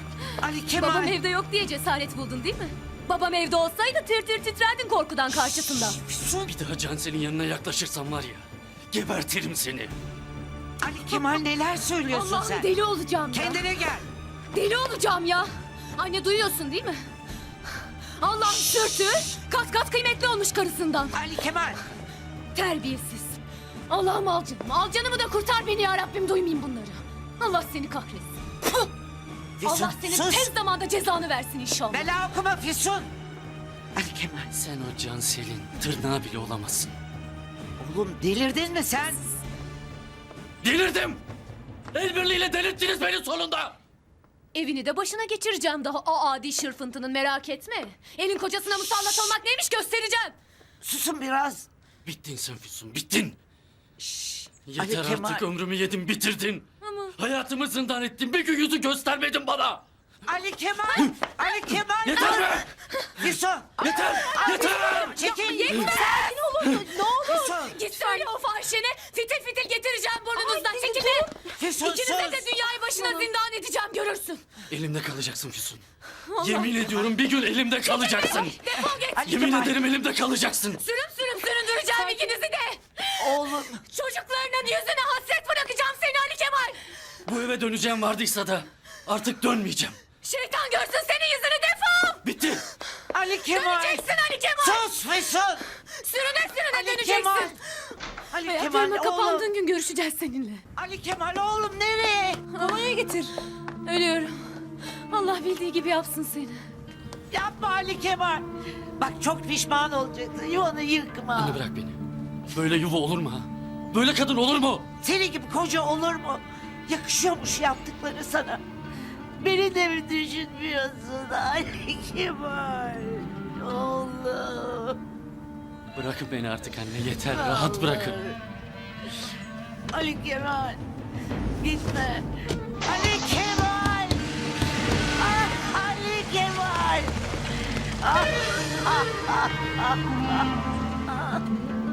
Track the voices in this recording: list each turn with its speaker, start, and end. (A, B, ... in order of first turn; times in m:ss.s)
0:00.4-0:01.2 A
0:00.7-0:06.0 B
0:06.0-0:06.5 A
0:06.4-0:09.9 C
0:10.8-0:12.7 A
0:11.1-0:11.4 B
0:12.1-0:13.7 B
0:13.3-0:14.1 A
0:14.5-0:17.1 B
0:18.2-0:21.2 B
0:21.1-0:21.8 A
0:22.5-0:28.4 B
0:29.6-0:30.5 A
0:29.6-0:32.1 B
0:31.9-0:33.1 A
0:33.9-0:34.5 A
0:34.5-0:36.9 C
0:37.8-0:39.4 A
0:40.6-0:41.2 C
0:41.9-0:43.8 C
0:44.5-0:50.4 B
0:50.8-0:51.7 A
0:52.0-0:53.4 C
0:54.0-0:55.4 A
0:54.6-0:56.6 C
0:56.8-0:57.1 B
0:57.2-0:59.8 C
1:00.2-1:08.2 A
1:00.9-1:02.7 C
1:03.8-1:05.9 C
1:04.9-1:14.4 B
1:10.4-1:12.5 A
1:14.7-1:15.8 C
1:16.2-1:17.0 B
1:16.4-1:20.8 C
1:17.8-1:19.3 B
1:18.8-1:19.8 A
1:20.8-1:26.8 B
1:22.0-1:22.3 A
1:23.2-1:23.8 A
1:27.2-1:30.0 C
1:30.2-1:32.2 B
1:32.2-1:32.6 C
1:33.1-1:35.6 A
1:33.5-1:34.9 B
1:35.9-1:37.6 B
1:36.7-1:37.6 A
1:38.3-1:39.5 A
1:38.4-1:40.6 B
1:40.7-1:42.5 A
1:42.5-1:46.7 B
1:47.3-1:48.4 A
1:49.0-1:51.6 A
1:51.3-1:54.9 C
1:55.0-1:58.6 A
1:59.4-2:05.0 A
2:05.9-2:08.2 C
2:07.2-2:08.4 A
2:09.9-2:10.8 A
2:11.6-2:12.3 A
2:12.8-2:14.3 A
2:15.2-2:17.2 A
2:18.0-2:20.4 A
2:21.1-2:21.4 A